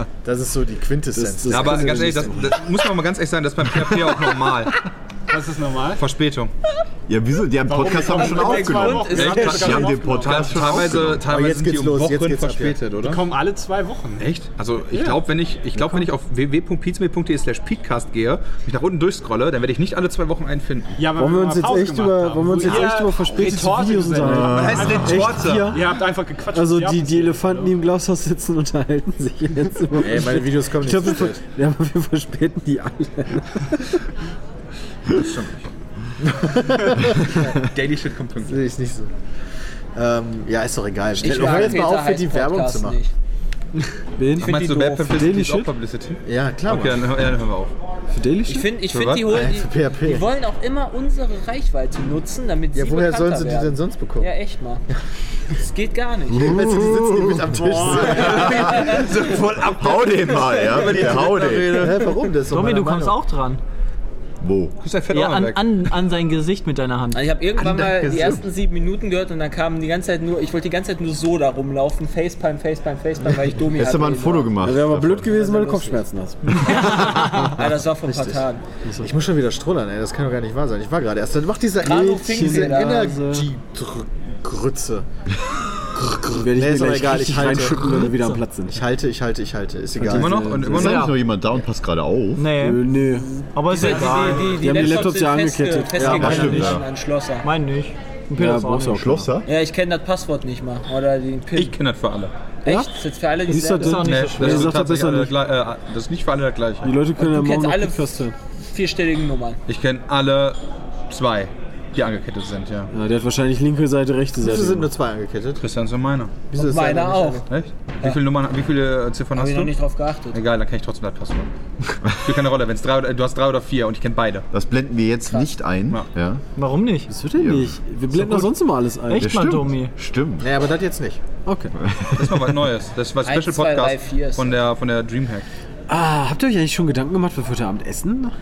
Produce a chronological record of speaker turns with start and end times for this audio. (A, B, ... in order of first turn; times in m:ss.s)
0:00.2-0:02.2 A
0:01.1-0:02.6 B
0:01.5-0:04.8 C
0:05.3-0:06.0 D
0:06.0-0:06.5 C
0:07.1-0:11.2 E
0:07.6-0:10.8 D
0:08.0-0:09.8 F
0:09.1-0:13.2 C
0:11.2-0:12.8 A
0:13.0-0:14.3 D
0:14.2-0:20.9 C
0:21.0-0:27.8 D
0:21.1-0:34.0 B
0:24.2-0:25.1 E
0:24.4-0:25.8 C
0:29.9-0:31.4 A
0:35.1-0:35.6 C
0:36.2-0:37.6 A
0:37.5-0:38.6 C
0:38.4-0:39.1 A
0:39.9-0:43.0 A
0:41.2-0:43.1 F
0:41.2-0:41.8 C
0:44.2-0:45.7 B
0:44.4-0:47.7 C
0:44.5-0:45.1 F
0:46.2-0:47.1 A
0:48.1-0:48.7 B
0:48.4-0:54.8 F
0:48.9-0:49.3 C
0:49.2-0:50.3 A
0:52.7-0:54.3 A
0:55.5-0:56.7 F
0:56.3-0:58.9 A
0:56.5-0:57.4 E
0:57.6-0:57.9 B
0:58.0-0:59.1 F
0:58.1-1:02.1 C
0:58.2-1:02.0 E
1:01.7-1:03.2 A
1:02.5-1:03.6 G
1:04.4-1:04.8 E
1:04.8-1:05.8 C
1:05.1-1:07.3 G
1:07.1-1:14.7 F
1:07.6-1:08.4 C
1:13.6-1:15.3 E
1:14.6-1:17.0 B
1:15.2-1:16.0 F
1:16.6-1:18.6 F
1:17.6-1:18.5 A
1:18.8-1:19.1 B
1:19.0-1:25.0 A
1:21.8-1:23.0 F
1:21.9-1:23.5 B
1:26.0-1:28.8 B
1:26.3-1:28.1 A
1:28.1-1:28.4 G
1:28.7-1:30.5 A
1:30.0-1:31.1 B
1:30.0-1:31.1 C
1:30.7-1:32.5 E
1:30.8-1:31.1 G
1:32.4-1:32.8 G
1:32.5-1:36.7 B
1:33.5-1:34.8 G
1:33.7-1:37.4 F
1:36.0-1:36.8 A
1:36.1-1:36.8 E
1:37.4-1:39.2 G
1:38.4-1:39.3 B
1:38.9-1:39.5 E
1:39.4-1:41.8 F
1:41.5-1:42.3 C
1:42.6-1:44.0 F
1:42.6-1:42.9 B
1:43.5-1:45.3 B
1:43.5-1:44.8 G
1:44.0-1:46.9 C
1:46.8-1:48.3 B
1:47.2-1:48.1 F
1:48.7-1:49.6 F
1:49.7-1:50.6 C
1:51.1-1:52.9 C
1:52.9-1:54.9 B
1:54.4-1:55.6 A
1:55.6-1:56.4 C
1:56.5-1:57.4 A
1:56.5-1:57.4 F
1:57.5-1:59.7 C
1:59.3-2:00.4 F
2:00.3-2:01.5 C
2:02.1-2:04.4 C
2:04.5-2:06.4 E
2:06.6-2:07.1 G
2:07.1-2:09.3 B
2:07.3-2:08.2 E
2:09.1-2:09.9 G
2:09.1-2:10.5 E
2:10.4-2:11.2 A
2:11.4-2:11.7 B
2:11.8-2:12.5 E
2:12.1-2:15.5 C
2:13.2-2:14.6 F
2:15.9-2:18.3 B